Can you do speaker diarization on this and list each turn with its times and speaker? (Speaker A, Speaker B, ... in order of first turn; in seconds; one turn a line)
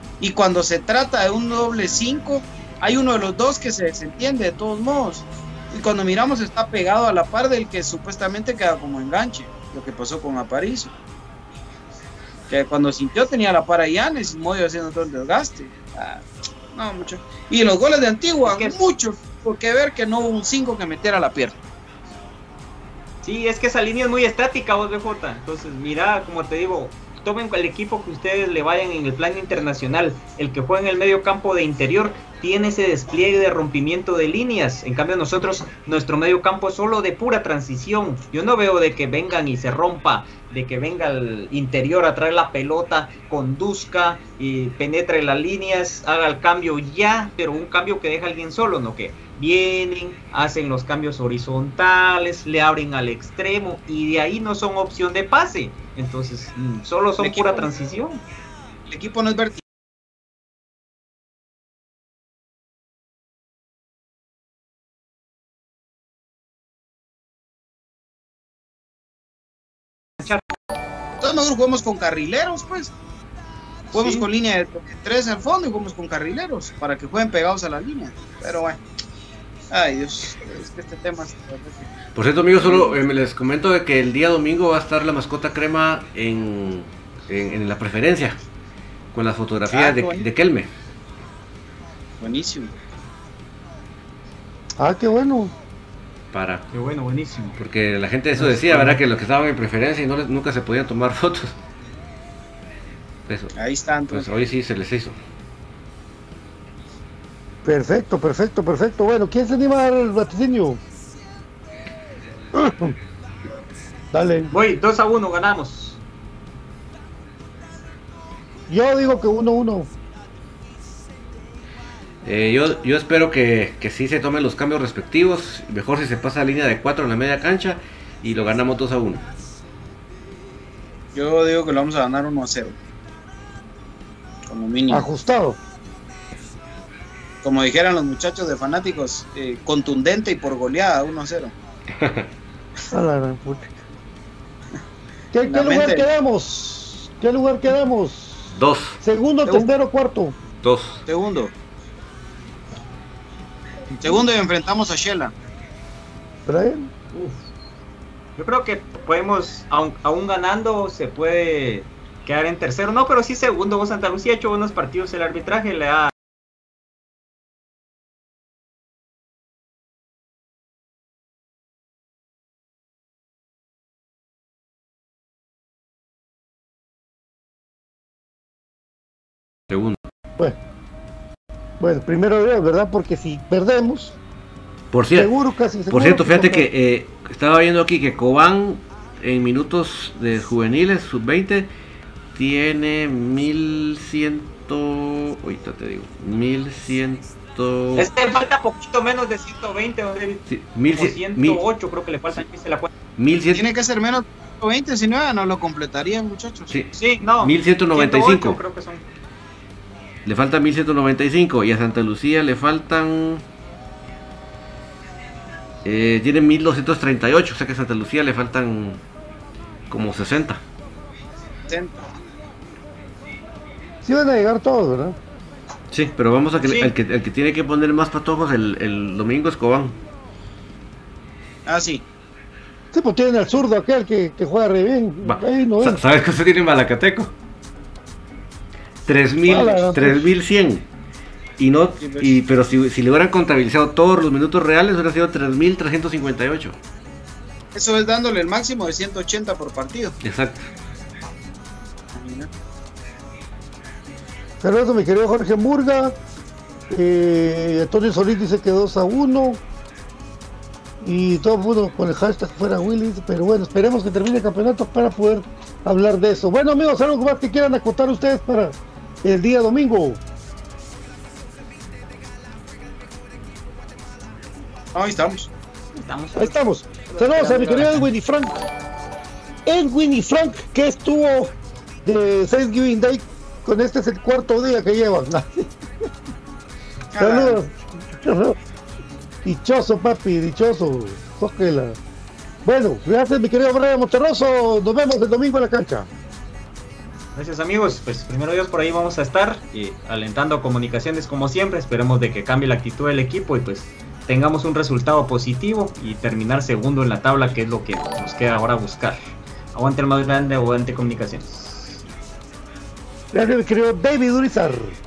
Speaker A: 0.2-10.9
Speaker A: 12.5-21.6
Speaker B: 18.4-18.8
Speaker B: 23.2-58.2
Speaker A: 57.2-57.7
Speaker A: 58.9-59.6
Speaker A: 71.2-72.9
Speaker A: 73.9-78.8
Speaker B: 73.9-74.3
Speaker A: 79.7-81.9
Speaker C: 82.2-88.4
Speaker A: 82.6-83.0
Speaker C: 89.1-90.7
Speaker A: 89.7-90.2
Speaker A: 92.2-92.7
Speaker D: 94.8-95.5
Speaker C: 96.3-96.7
Speaker B: 96.7-97.6
Speaker C: 97.6-101.6
Speaker B: 98.4-99.0
Speaker C: 103.3-103.5
Speaker A: 103.5-104.3
Speaker C: 104.1-105.2
Speaker D: 107.7-110.8
Speaker D: 112.5-113.0
Speaker D: 114.1-114.5
Speaker B: 114.5-116.0
Speaker D: 118.7-119.9
Speaker C: 122.2-129.2
Speaker A: 131.2-132.8
Speaker A: 134.5-135.1
Speaker D: 134.9-135.6
Speaker A: 137.4-141.5
Speaker C: 142.0-142.3
Speaker D: 142.9-143.8
Speaker D: 145.3-148.5
Speaker A: 145.4-146.1
Speaker C: 148.5-149.0
Speaker D: 149.0-150.3
Speaker C: 150.6-151.0
Speaker A: 151.1-151.5
Speaker A: 154.0-155.3
Speaker D: 156.5-156.9
Speaker B: 157.1-157.4
Speaker B: 158.4-166.1
Speaker C: 179.7-180.0
Speaker D: 181.8-184.2
Speaker C: 184.9-185.3
Speaker D: 185.2-186.7
Speaker C: 185.9-191.7
Speaker C: 192.3-198.1
Speaker B: 198.0-202.9
Speaker C: 200.5-201.6
Speaker C: 203.2-203.7
Speaker A: 203.5-206.8
Speaker C: 206.7-208.6
Speaker B: 206.9-209.1
Speaker C: 210.2-213.4
Speaker C: 215.8-219.0
Speaker C: 219.9-220.6
Speaker A: 221.7-222.1
Speaker D: 224.0-225.2
Speaker C: 225.9-230.0
Speaker A: 226.6-226.9
Speaker A: 231.7-232.0
Speaker D: 232.9-236.0
Speaker C: 235.2-237.3
Speaker C: 239.1-240.8
Speaker D: 239.5-240.3
Speaker C: 241.6-246.8
Speaker A: 242.0-242.3
Speaker A: 247.8-250.2
Speaker C: 250.2-250.7
Speaker A: 252.1-252.5
Speaker D: 254.6-256.2
Speaker D: 256.9-259.6
Speaker D: 261.0-270.2
Speaker A: 274.9-275.5
Speaker B: 276.0-278.1
Speaker D: 276.4-278.6
Speaker D: 279.7-281.5
Speaker D: 282.1-285.7
Speaker A: 287.1-287.6
Speaker D: 287.2-288.6
Speaker D: 289.4-292.0
Speaker D: 292.6-296.1
Speaker B: 297.4-309.2
Speaker B: 309.8-312.0
Speaker D: 313.3-315.0